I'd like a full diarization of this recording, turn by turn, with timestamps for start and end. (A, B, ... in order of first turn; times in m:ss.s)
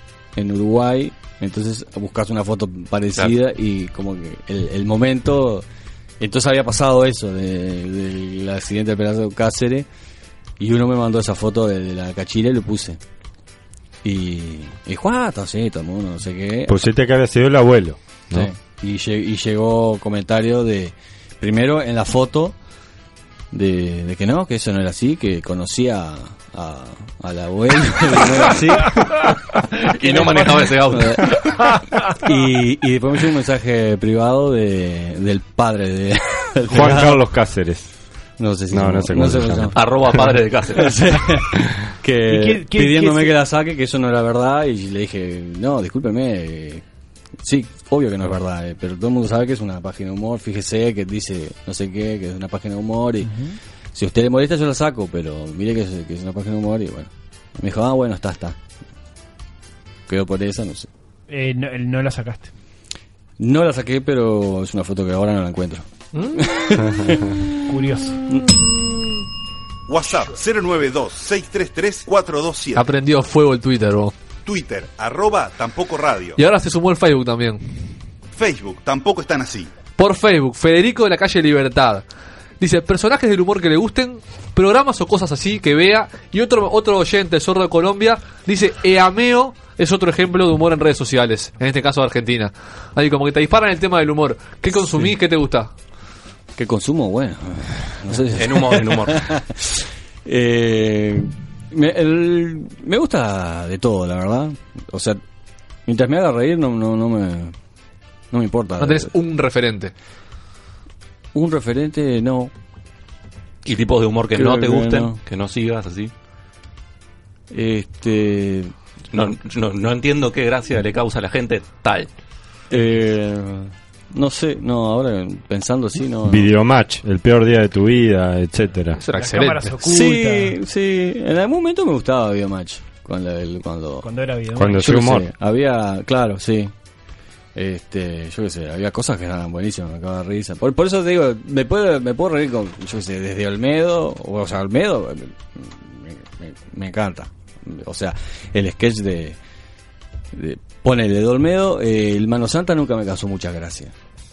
0:00.4-0:05.6 A
0:06.2-0:09.9 A
0:10.6-0:13.0 A
0:14.0-0:16.8 A
0:16.7-0:18.5 B
0:18.3-0:22.5 A
0:23.5-0:29.0 A
0:29.9-0:31.5 C
0:30.1-0:31.3 A
0:32.2-0:37.2 A
0:36.7-0:37.9 B
0:38.4-0:39.8 A
0:38.7-0:39.7 B
0:39.7-0:41.0 C
0:40.7-0:46.8 A
0:42.3-0:43.4 D
0:47.4-0:53.3 A
0:53.2-0:53.6 D
0:53.9-0:58.6 A
1:00.1-1:00.9 A
1:01.3-1:02.5 D
1:03.4-1:07.2 A
1:07.7-1:08.2 D
1:09.9-1:12.9 E
1:12.8-1:14.1 F
1:14.4-1:16.4 E
1:16.4-1:17.6 F
1:18.3-1:19.7 E
1:20.0-1:22.0 F
1:22.6-1:35.7 F
1:34.8-1:35.1 A
1:36.6-1:45.2 A
1:38.4-1:39.3 C
1:45.9-1:47.5 A
1:48.3-1:49.1 A
1:48.8-1:49.9 F
1:51.3-1:52.5 A
1:53.6-1:56.1 C
1:54.3-1:55.2 A
1:57.5-1:58.7 A
1:59.1-2:02.1 C
2:02.7-2:06.5 A
2:06.2-2:09.0 B
2:09.1-2:09.6 F
2:09.2-2:10.6 D
2:09.8-2:14.1 A
2:14.0-2:14.9 D
2:14.6-2:15.3 B
2:14.6-2:16.7 A
2:17.6-2:29.4 A
2:30.3-2:33.9 A